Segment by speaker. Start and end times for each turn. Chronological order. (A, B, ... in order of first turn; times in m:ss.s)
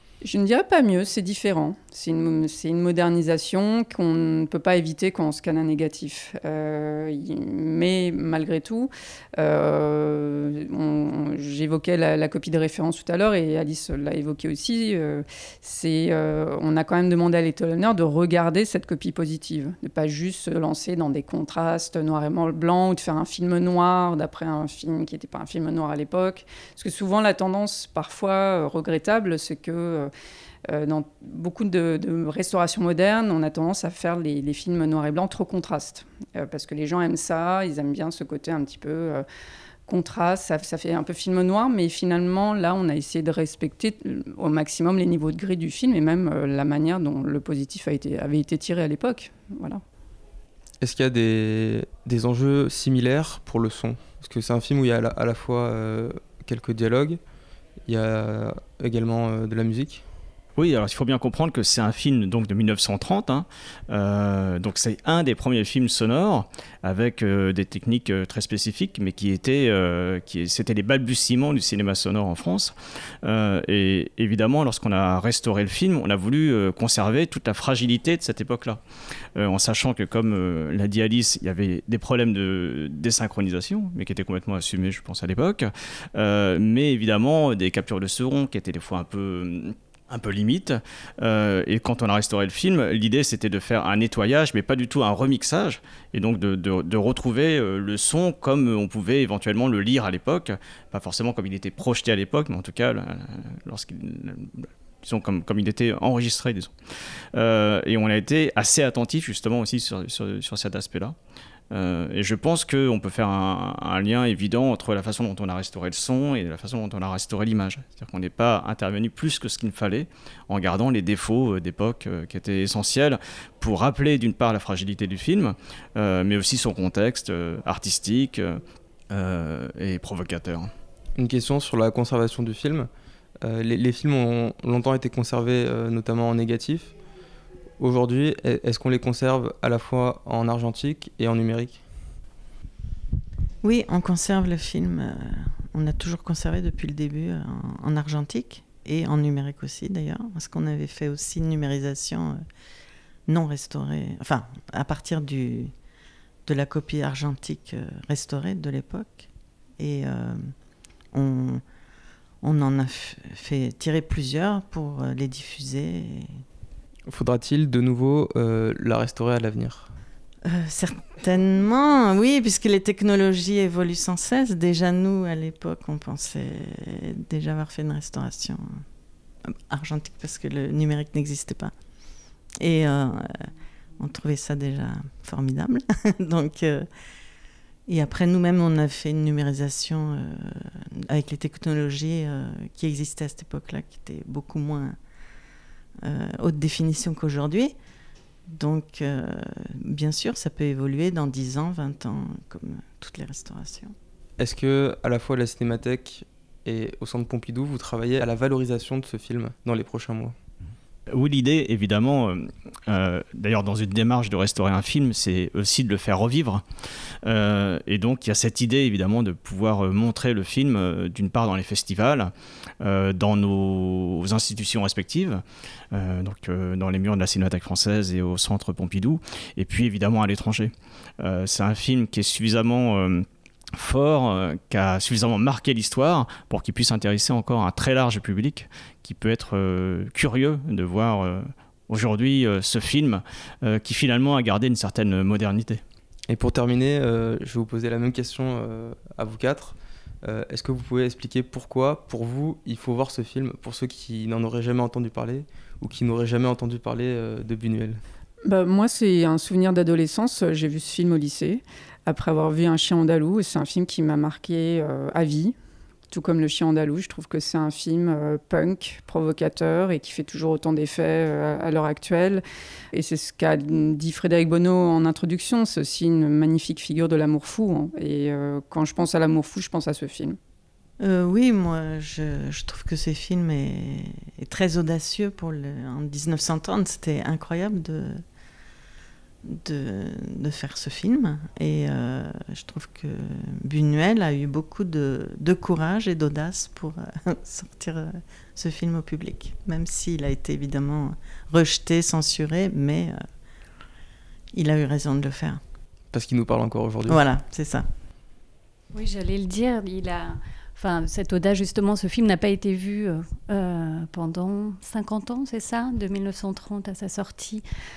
0:00.2-0:30.1 A
0:30.7-0:39.2 A
0:39.9-0:49.8 A
0:50.8-0:57.2 B
0:57.9-1:00.0 B
1:00.6-1:18.8 C
1:19.4-1:46.7 C
1:47.4-1:51.2 C
1:51.7-2:08.6 C
2:09.1-2:10.7 C
2:11.2-2:12.9 B
2:13.4-2:16.9 B
2:17.8-2:21.8 B
2:23.6-2:32.4 D
2:33.3-2:35.7 D
2:36.5-2:39.3 D
2:39.8-2:40.5 D
2:41.1-2:41.6 D
2:42.4-2:46.4 D
2:47.1-2:49.9 B
2:50.5-2:58.6 D
2:59.7-3:01.7 D
3:02.6-3:03.5 D
3:04.0-3:06.9 D
3:07.9-3:15.0 D
3:16.0-3:17.8 D
3:18.5-3:23.9 D
3:24.4-3:30.4 B
3:31.1-3:36.6 C
3:37.2-3:45.4 C
3:45.9-4:05.8 C
4:06.3-4:18.0 B
4:18.4-4:25.6 A
4:26.1-4:40.4 A
4:41.0-4:48.2 D
4:49.5-5:03.2 D
5:04.5-5:05.6 D
5:06.1-5:07.2 B
5:07.1-5:07.9 D
5:08.9-5:17.6 E